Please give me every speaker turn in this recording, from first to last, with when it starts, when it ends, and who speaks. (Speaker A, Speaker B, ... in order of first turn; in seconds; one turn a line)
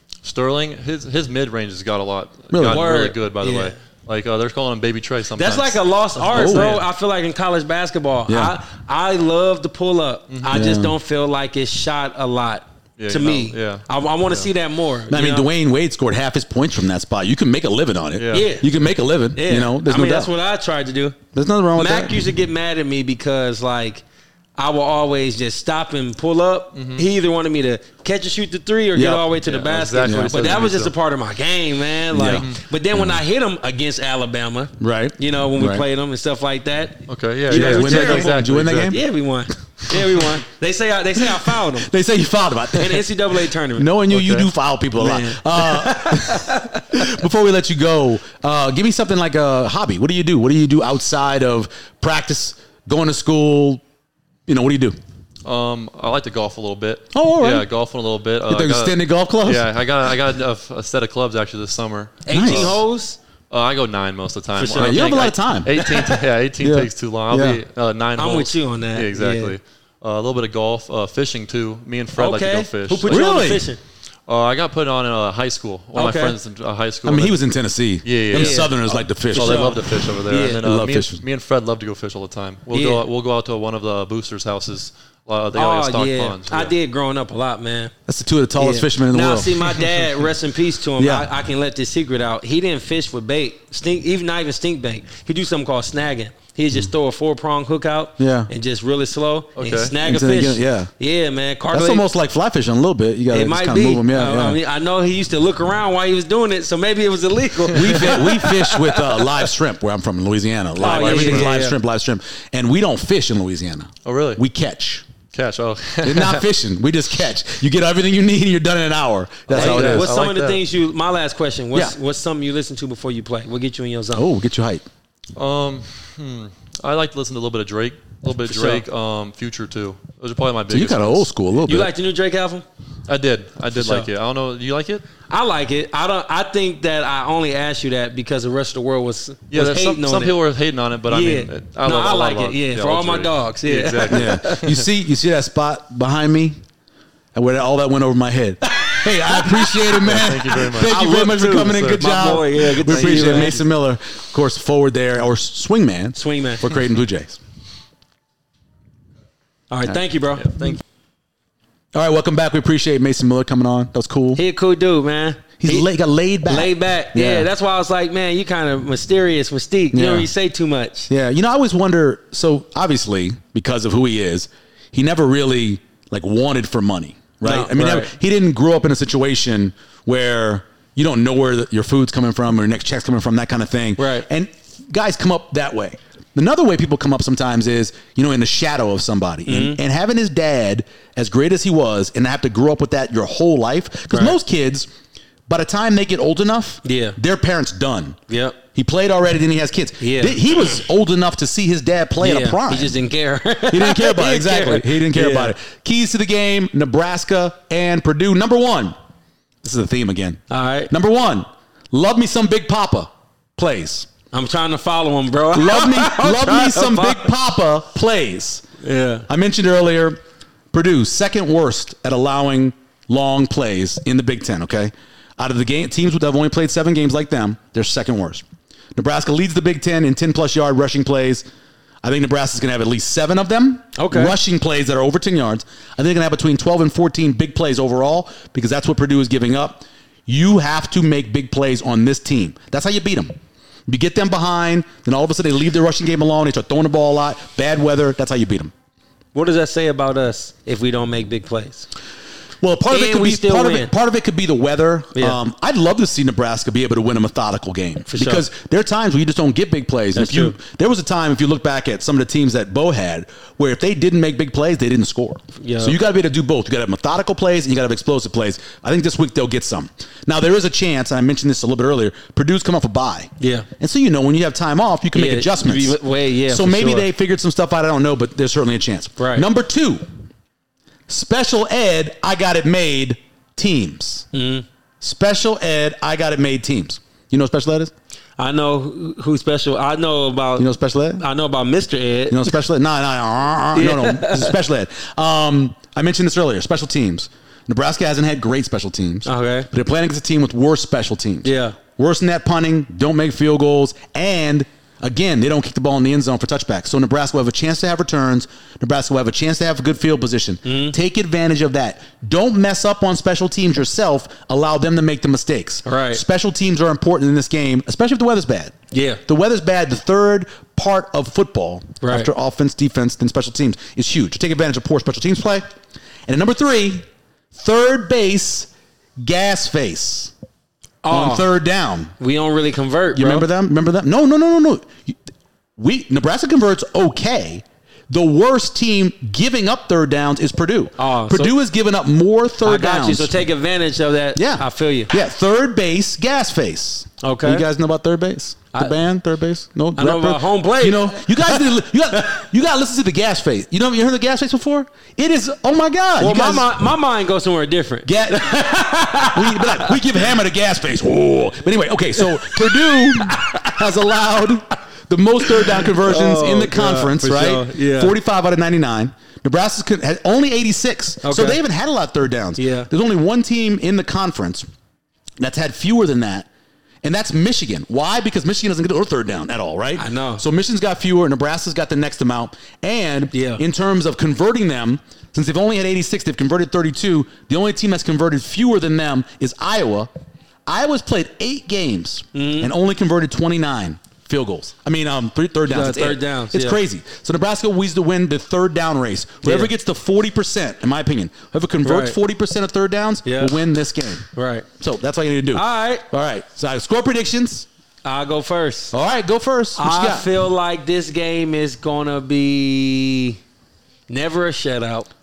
Speaker A: 0.2-6.8
Speaker B: 2.5-2.8
Speaker C: 2.6-3.7
Speaker C: 5.4-15.5
Speaker B: 6.3-6.8
Speaker B: 8.3-8.5
Speaker A: 10.3-10.6
Speaker B: 10.5-10.9
Speaker A: 13.0-14.5
Speaker B: 15.1-20.3
Speaker A: 18.2-18.5
Speaker C: 18.3-18.7
Speaker C: 19.3-21.2
Speaker B: 21.3-22.3
Speaker C: 21.7-24.0
Speaker C: 24.6-38.4
Speaker A: 26.7-27.1
Speaker B: 28.9-29.3
Speaker A: 29.4-30.9
Speaker B: 30.0-30.3
Speaker B: 32.1-33.2
Speaker B: 34.8-35.8
Speaker A: 37.1-39.0
Speaker B: 37.5-39.0
Speaker C: 38.9-41.9
Speaker B: 39.9-40.2
Speaker B: 41.2-43.1
Speaker C: 42.7-43.9
Speaker B: 43.7-53.8
Speaker A: 44.1-44.5
Speaker C: 45.0-46.8
Speaker B: 54.5-55.0
Speaker A: 55.4-62.8
Speaker B: 57.1-57.7
Speaker B: 58.5-59.7
Speaker C: 62.2-63.2
Speaker B: 62.3-62.8
Speaker A: 63.5-73.5
Speaker C: 64.6-66.2
Speaker B: 64.7-65.7
Speaker B: 66.6-67.6
Speaker C: 68.2-69.6
Speaker C: 72.1-73.8
Speaker B: 73.0-73.7
Speaker A: 74.3-77.4
Speaker C: 75.9-76.3
Speaker B: 77.0-79.8
Speaker A: 78.0-86.7
Speaker C: 78.3-80.6
Speaker B: 80.3-81.2
Speaker C: 82.7-83.0
Speaker C: 85.5-87.9
Speaker B: 88.1-89.8
Speaker C: 88.6-102.0
Speaker B: 91.0-91.3
Speaker B: 98.2-98.5
Speaker A: 99.6-100.0
Speaker B: 100.0-100.9
Speaker B: 101.7-104.6
Speaker C: 103.3-109.5
Speaker A: 107.7-108.1
Speaker B: 107.7-115.0
Speaker C: 110.8-111.8
Speaker A: 110.8-111.5
Speaker A: 114.0-114.4
Speaker A: 115.3-116.4
Speaker B: 116.0-120.1
Speaker A: 119.5-120.6
Speaker C: 119.5-124.2
Speaker B: 124.1-124.8
Speaker A: 125.3-131.3
Speaker C: 128.4-128.8
Speaker B: 130.7-131.9
Speaker C: 131.7-132.6
Speaker A: 133.1-135.1
Speaker C: 133.7-134.1
Speaker C: 135.3-140.3
Speaker A: 139.5-144.9
Speaker C: 141.1-144.7
Speaker B: 144.1-146.6
Speaker B: 147.3-157.4
Speaker C: 148.8-150.2
Speaker A: 150.0-153.6
Speaker C: 150.8-153.6
Speaker C: 156.2-156.7
Speaker C: 159.7-160.7
Speaker A: 160.4-160.8
Speaker B: 161.9-164.4
Speaker C: 164.3-165.9
Speaker B: 165.6-167.5
Speaker C: 166.4-171.1
Speaker B: 169.9-170.3
Speaker B: 171.1-194.9
Speaker C: 177.4-178.1
Speaker C: 184.0-184.3
Speaker C: 189.4-189.8
Speaker C: 194.1-194.3
Speaker B: 195.5-198.2
Speaker C: 196.8-197.2
Speaker C: 198.3-198.6
Speaker B: 198.7-202.9
Speaker C: 200.0-200.4
Speaker C: 202.2-205.5
Speaker B: 203.7-208.9
Speaker B: 209.6-214.1
Speaker C: 210.5-210.9
Speaker C: 214.3-217.3
Speaker B: 215.5-218.7
Speaker C: 218.8-219.3
Speaker B: 219.3-220.2
Speaker B: 220.7-228.4
Speaker B: 228.9-231.4
Speaker B: 232.0-243.3
Speaker C: 233.9-234.4
Speaker B: 243.9-248.7
Speaker C: 249.3-251.9
Speaker B: 252.6-280.0
Speaker C: 252.9-253.9
Speaker C: 258.1-258.4
Speaker C: 260.1-260.6
Speaker C: 265.6-266.0
Speaker C: 273.4-273.7
Speaker C: 275.1-277.1
Speaker C: 279.2-279.5
Speaker B: 281.1-284.3
Speaker C: 284.3-284.6
Speaker B: 285.0-287.9
Speaker C: 288.4-292.6
Speaker B: 290.6-291.2
Speaker B: 292.3-318.8
Speaker C: 293.7-294.6
Speaker C: 299.2-299.7
Speaker C: 301.4-301.8
Speaker C: 310.6-310.9
Speaker C: 315.8-316.2
Speaker C: 318.9-319.2
Speaker B: 319.3-325.6
Speaker C: 322.0-322.3
Speaker B: 326.3-328.7
Speaker B: 329.2-330.3
Speaker C: 331.0-331.5
Speaker B: 331.1-332.1
Speaker C: 332.2-333.5
Speaker B: 333.1-335.2
Speaker B: 335.8-343.3
Speaker C: 341.0-341.5
Speaker C: 342.6-345.1
Speaker B: 344.4-356.7
Speaker C: 347.2-347.6
Speaker C: 349.9-351.7
Speaker C: 356.2-360.0
Speaker B: 358.0-374.7
Speaker C: 362.2-363.8
Speaker C: 365.4-368.1
Speaker C: 371.2-371.6
Speaker C: 372.6-372.9
Speaker B: 375.4-376.5
Speaker B: 377.0-390.1
Speaker C: 380.0-380.4
Speaker C: 383.3-383.6
Speaker B: 390.6-404.3
Speaker C: 392.3-392.7
Speaker C: 395.7-396.8
Speaker C: 399.4-399.7
Speaker C: 401.8-402.1
Speaker C: 403.2-403.6
Speaker C: 404.3-404.7
Speaker B: 404.8-407.6
Speaker C: 405.5-406.0
Speaker C: 408.0-408.9
Speaker B: 408.9-410.3
Speaker C: 409.8-413.4
Speaker C: 414.1-415.1